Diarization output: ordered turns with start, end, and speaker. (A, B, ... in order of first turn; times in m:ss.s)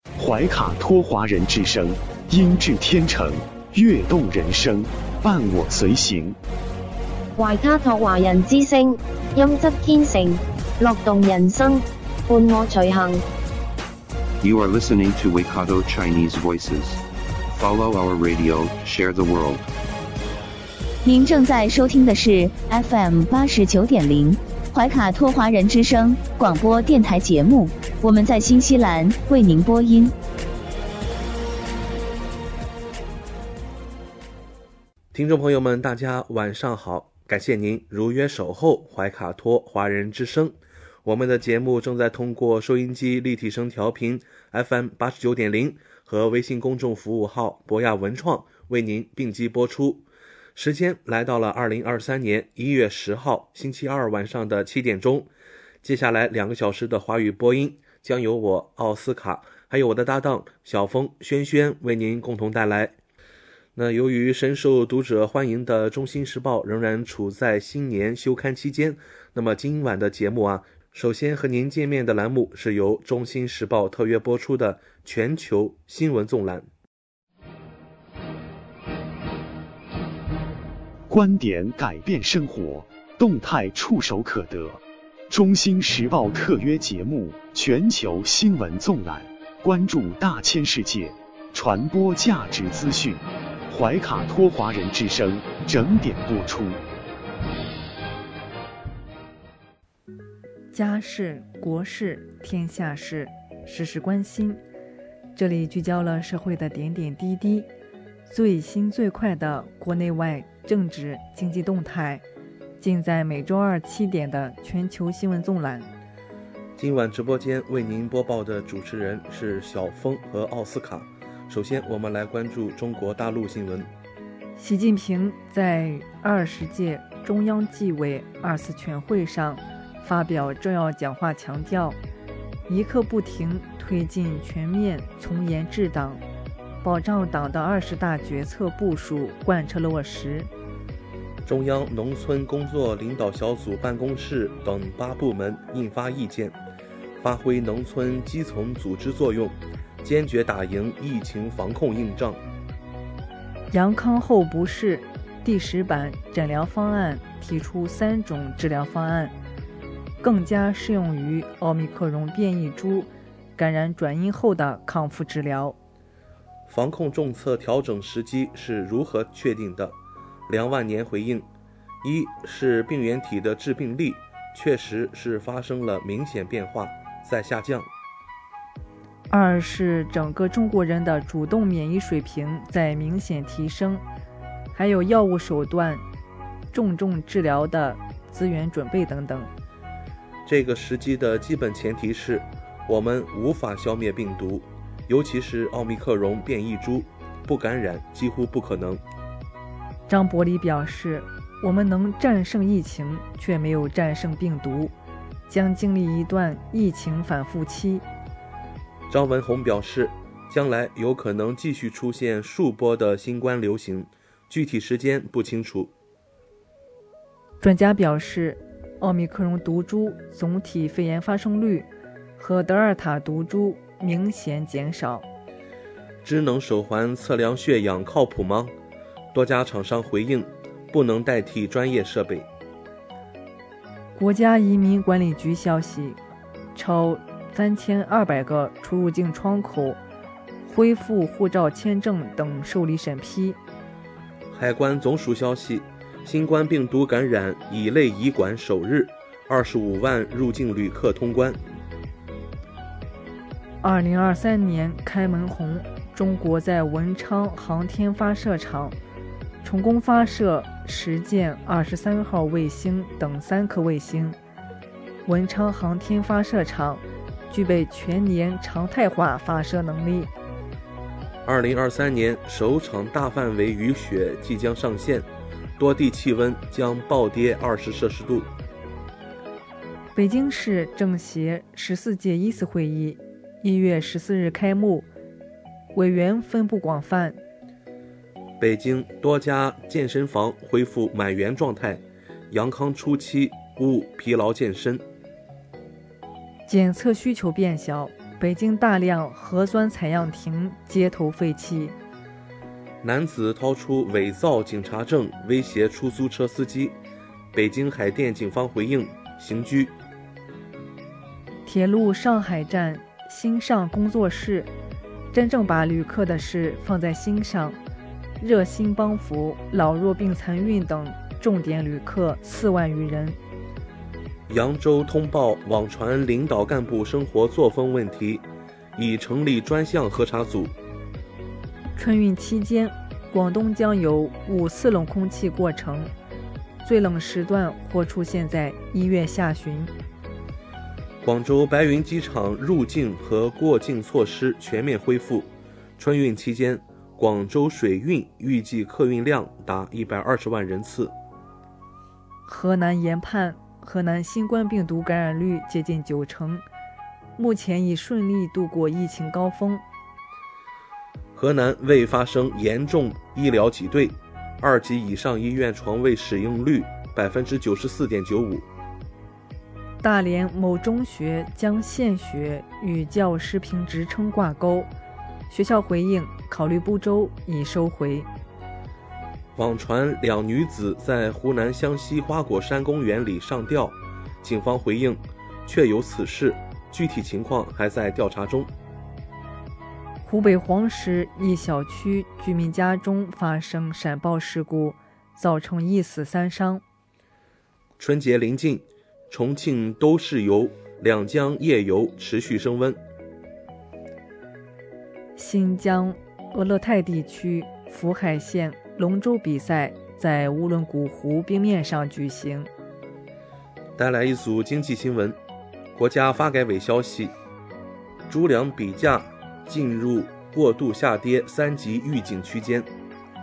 0:00.2-0:06.4 A
0:07.4-0:13.2 B
0:14.4-0:17.0 C
0:17.5-0:19.6 C
0:21.0-0:30.1 D
0:35.1-0:50.0 E
0:50.6-0:55.3 E
0:55.8-1:02.9 E
1:03.8-1:16.7 E
1:21.1-1:36.8 A
1:40.7-1:44.6 F
1:45.3-1:47.7 F
1:48.3-1:52.2 F
1:52.8-1:55.9 F
1:56.8-2:03.9 E
2:04.6-2:12.0 F
2:12.7-2:16.2 F
2:16.8-2:20.5 F
2:21.4-2:26.6 E
2:27.2-2:32.4 E
2:33.7-2:39.3 F
2:40.2-2:45.8 F
2:46.7-2:50.0 E
2:50.5-2:51.5 E
2:52.0-2:57.9 E
2:59.3-3:04.0 F
3:04.7-3:06.0 F
3:06.7-3:09.5 F
3:10.5-3:19.0 E
3:20.1-3:24.9 F
3:25.5-3:28.0 F
3:29.1-3:35.9 E
3:37.6-3:45.3 F
3:46.2-3:48.7 E
3:49.3-3:52.5 E
3:54.2-3:56.2 F
3:56.8-4:00.0 F
4:00.7-4:03.6 F
4:04.5-4:11.6 E
4:13.8-4:19.0 F
4:19.6-4:24.4 F
4:25.2-4:30.3 F
4:31.4-4:35.3 E
4:35.8-4:38.5 E
4:40.1-4:45.1 F
4:45.9-4:47.4 F
4:48.6-4:55.0 E
4:56.7-5:02.0 F
5:03.0-5:06.9 E
5:07.5-5:09.9 E
5:11.6-5:14.7 F
5:15.3-5:17.8 F
5:18.4-5:23.4 F
5:24.5-5:28.4 E
5:29.0-5:30.7 E
5:32.0-5:36.1 F
5:36.8-5:39.9 F
5:41.2-5:51.1 E
5:52.4-5:56.6 F
5:57.4-5:59.8 F
6:01.3-6:08.6 E
6:10.0-6:14.9 F
6:15.5-6:18.3 F
6:19.6-6:28.7 E
6:30.2-6:36.8 F
6:38.0-6:43.0 E
6:45.4-6:52.7 F
6:54.0-6:55.4 E
6:55.9-6:57.3 E
6:58.3-7:02.9 E